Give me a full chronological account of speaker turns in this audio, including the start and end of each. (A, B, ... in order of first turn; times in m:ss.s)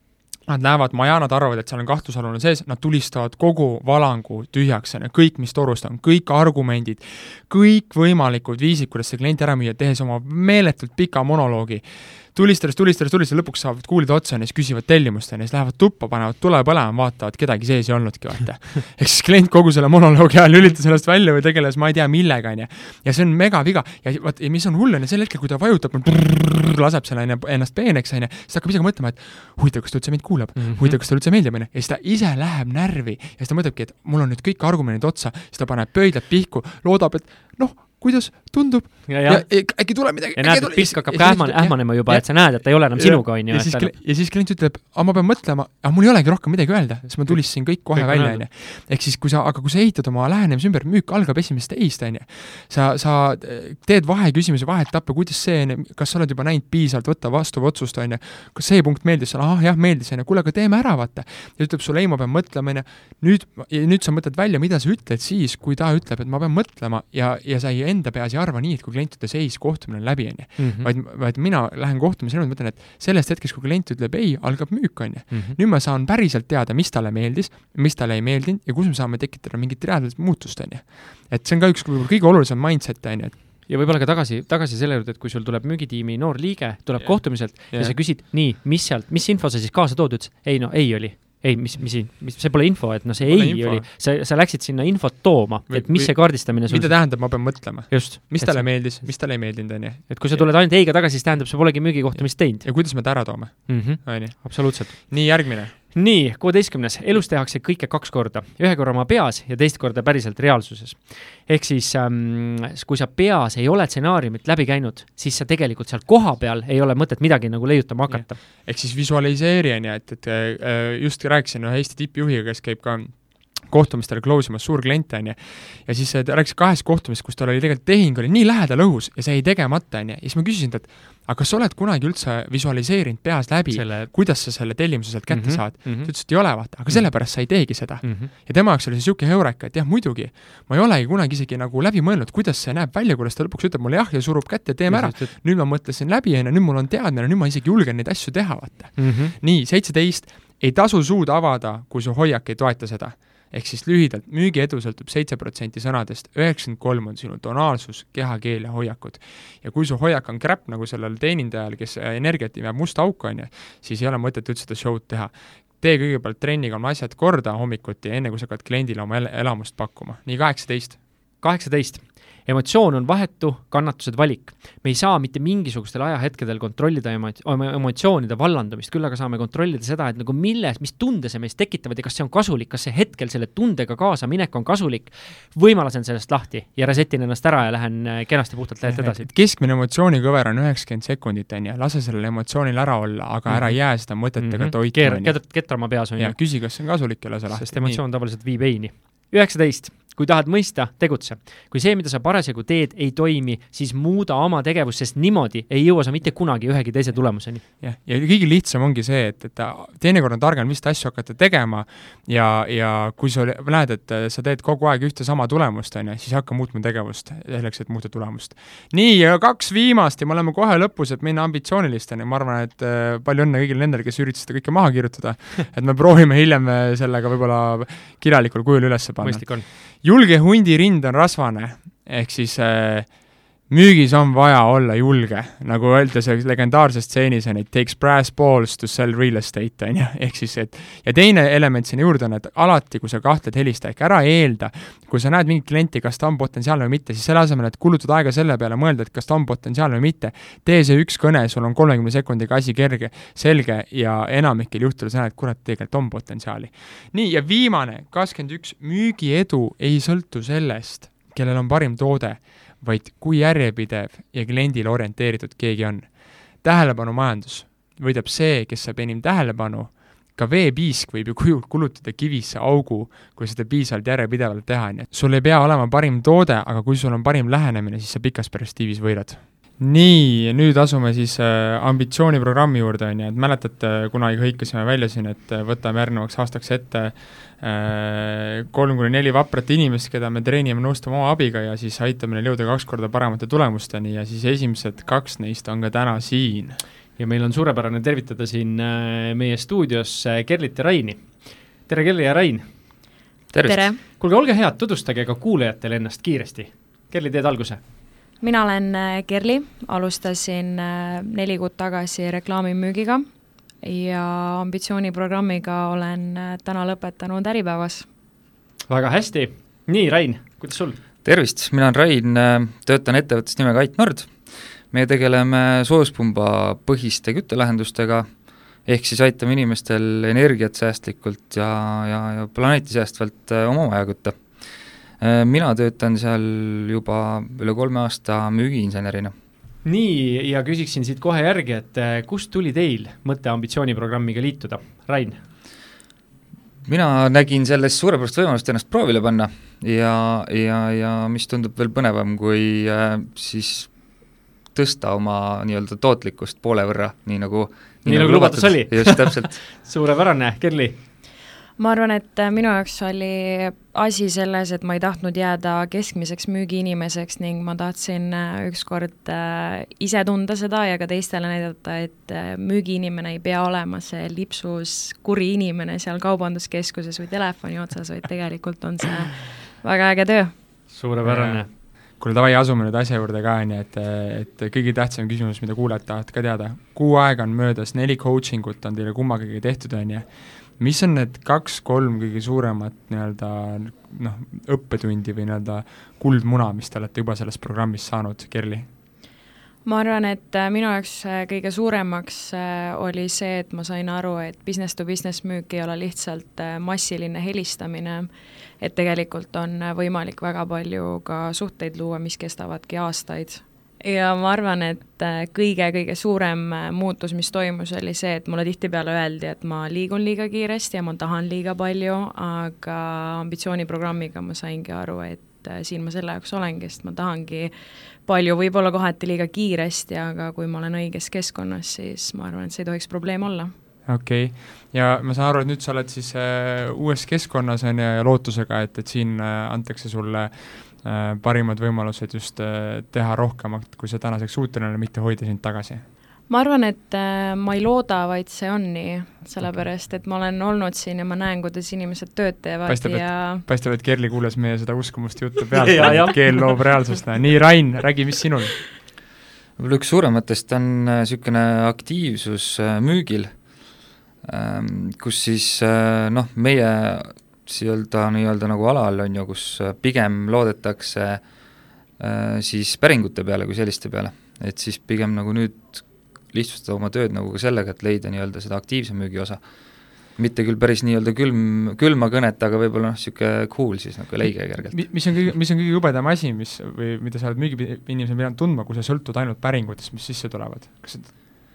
0:00.4-1:23.4 A
0:30.6-0:31.0 B
0:39.1-0:43.9 B
0:47.2-0:48.4 B
1:10.6-1:10.9 B
1:15.3-1:15.6 B
1:23.7-1:58.4 B
1:27.0-1:28.0 A
1:33.2-1:33.9 A
1:35.7-1:40.5 A
1:42.1-1:45.8 A
1:58.1-2:51.0 A
2:13.7-2:14.1 B
2:15.3-2:18.3 B
2:24.9-2:25.3 B
2:29.0-2:29.4 B
2:51.4-3:09.3 B
3:08.9-3:18.0 A
3:13.5-3:27.6 B
3:27.5-4:56.8 A
3:49.2-3:49.7 B
4:57.2-5:02.7 B
5:03.5-5:03.9 C
5:03.6-5:04.0 D
5:04.1-5:07.8 B
5:08.4-5:13.2 D
5:13.8-5:18.0 D
5:18.9-5:21.0 B
5:21.2-5:39.3 C
5:39.8-5:45.5 B
5:46.8-5:54.0 C
5:54.7-5:59.7 C
5:58.0-6:01.0 B
6:01.8-6:20.6 D
6:20.9-6:21.7 B
6:21.2-6:38.9 A
6:39.8-7:07.7 D
7:08.2-7:13.7 D
7:14.0-7:26.0 A
7:26.5-7:33.6 D
7:32.8-7:38.8 A
7:35.8-7:36.7 B
7:39.8-7:43.7 C
7:44.4-7:51.4 C
7:52.1-8:05.0 C
8:04.8-8:11.3 A